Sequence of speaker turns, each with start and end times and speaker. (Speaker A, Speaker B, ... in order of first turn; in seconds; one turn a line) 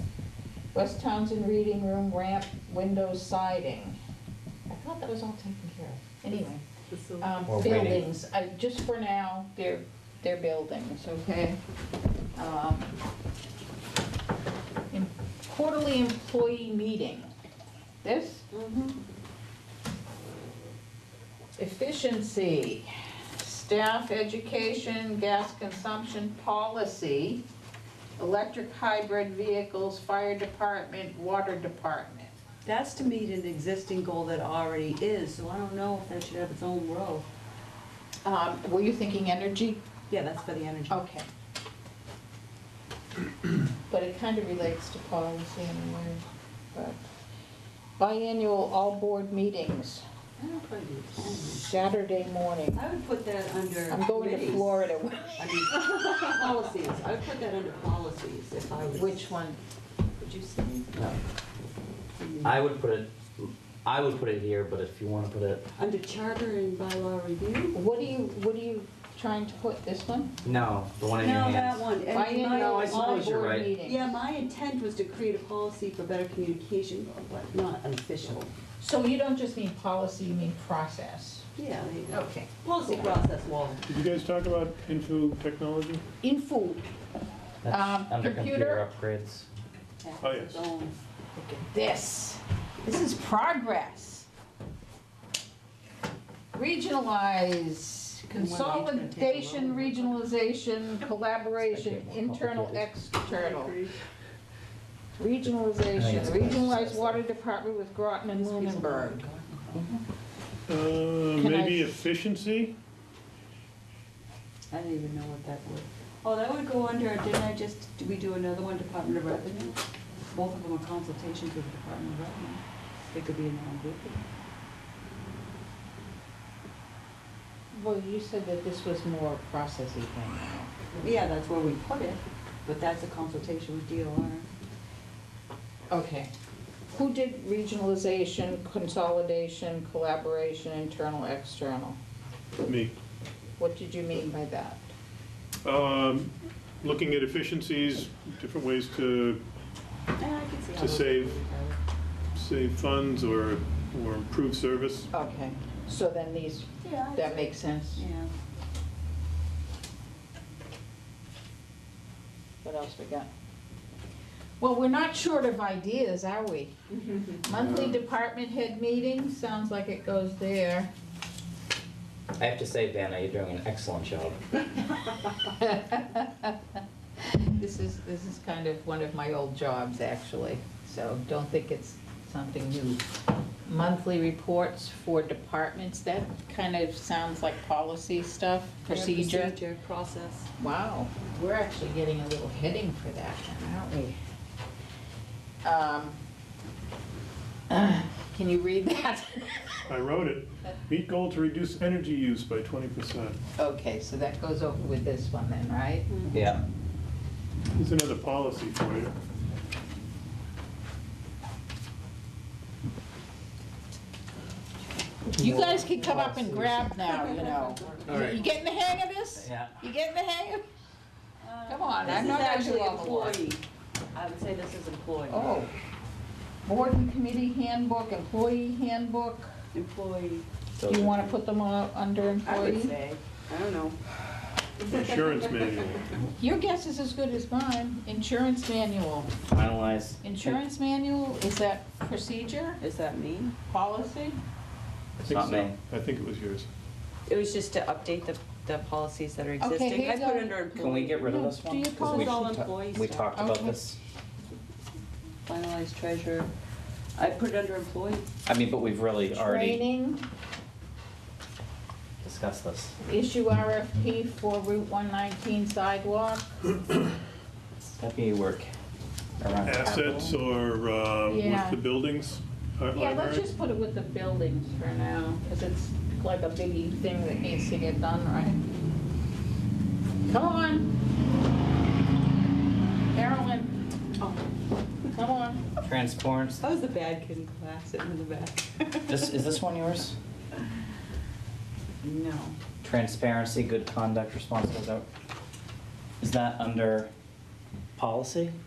Speaker A: 0.7-4.0
Speaker A: 4.7-6.6
Speaker B: 6.9-7.4
Speaker A: 7.2-11.6
Speaker C: 7.5-8.0
Speaker A: 12.4-12.9
Speaker A: 14.9-17.3
Speaker A: 18.0-18.5
Speaker B: 18.5-19.0
Speaker A: 21.6-27.4
Speaker A: 28.2-32.3
Speaker B: 32.7-37.3
Speaker A: 38.2-39.8
Speaker B: 40.1-41.0
Speaker A: 40.9-41.3
Speaker A: 43.9-46.2
Speaker A: 46.7-47.0
Speaker A: 48.0-52.8
Speaker B: 51.1-51.8
Speaker B: 52.7-54.8
Speaker A: 53.9-55.5
Speaker B: 55.4-59.3
Speaker A: 58.9-59.6
Speaker B: 60.2-60.9
Speaker B: 62.2-62.6
Speaker C: 62.4-65.7
Speaker B: 65.8-67.8
Speaker A: 67.7-70.3
Speaker C: 70.4-71.8
Speaker B: 71.2-78.5
Speaker A: 72.1-74.1
Speaker C: 72.5-73.7
Speaker A: 78.8-81.5
Speaker B: 81.6-83.9
Speaker A: 82.1-83.1
Speaker D: 83.9-86.0
Speaker A: 86.2-86.9
Speaker C: 87.6-89.5
Speaker A: 87.7-88.9
Speaker B: 90.0-91.0
Speaker D: 90.2-90.7
Speaker A: 91.4-94.3
Speaker A: 96.5-103.8
Speaker B: 98.3-100.2
Speaker C: 101.6-102.9
Speaker B: 103.2-104.0
Speaker A: 105.2-109.2
Speaker C: 105.9-107.2
Speaker B: 108.4-109.9
Speaker C: 109.7-110.0
Speaker D: 110.7-112.7
Speaker A: 111.4-112.0
Speaker B: 114.7-119.8
Speaker B: 120.3-124.2
Speaker A: 127.7-130.7
Speaker B: 131.0-134.5
Speaker A: 135.9-136.3
Speaker A: 136.9-142.0
Speaker D: 142.6-142.9
Speaker A: 143.6-144.8
Speaker D: 145.6-149.4
Speaker B: 150.2-151.8
Speaker D: 150.8-151.3
Speaker D: 152.3-155.1
Speaker A: 155.1-158.1
Speaker B: 156.8-158.3
Speaker A: 162.6-163.3
Speaker A: 164.6-166.8
Speaker A: 167.4-170.9
Speaker D: 167.5-168.0
Speaker C: 172.4-174.5
Speaker A: 175.3-176.6
Speaker A: 177.2-183.0
Speaker A: 183.7-189.6
Speaker B: 188.9-190.5
Speaker A: 190.6-194.2
Speaker A: 195.6-196.2
Speaker A: 197.7-199.8
Speaker D: 199.9-203.4
Speaker A: 203.6-206.2
Speaker B: 206.1-206.4
Speaker C: 206.3-206.6
Speaker D: 207.8-209.1
Speaker A: 215.3-220.6
Speaker D: 216.1-216.8
Speaker B: 217.0-218.5
Speaker C: 219.4-219.8
Speaker B: 221.4-223.6
Speaker A: 221.7-223.4
Speaker B: 224.1-225.6
Speaker A: 225.3-225.7
Speaker A: 226.7-229.5
Speaker B: 229.7-230.5
Speaker C: 230.8-231.4
Speaker A: 230.9-232.9
Speaker B: 232.4-234.0
Speaker D: 234.9-236.2
Speaker A: 236.4-239.3
Speaker C: 239.5-240.6
Speaker A: 240.2-242.8
Speaker B: 242.8-243.6
Speaker A: 243.7-244.4
Speaker D: 245.2-246.7
Speaker C: 245.2-245.8
Speaker B: 247.3-251.2
Speaker A: 249.6-252.4
Speaker C: 250.8-254.0
Speaker B: 251.9-253.3
Speaker A: 253.3-253.8
Speaker B: 255.5-256.5
Speaker B: 257.2-258.3
Speaker C: 258.5-259.8
Speaker A: 259.3-260.2
Speaker C: 262.2-262.9
Speaker A: 263.0-266.6
Speaker C: 268.0-268.7
Speaker C: 269.4-270.4
Speaker D: 269.6-273.5
Speaker A: 271.3-271.8
Speaker A: 272.9-278.6
Speaker A: 280.3-280.9
Speaker A: 283.1-283.7
Speaker A: 285.1-285.6
Speaker C: 285.8-286.6
Speaker B: 286.6-289.4
Speaker C: 289.1-290.2
Speaker B: 292.0-292.6
Speaker C: 292.8-295.1
Speaker C: 296.2-297.1
Speaker C: 298.0-298.6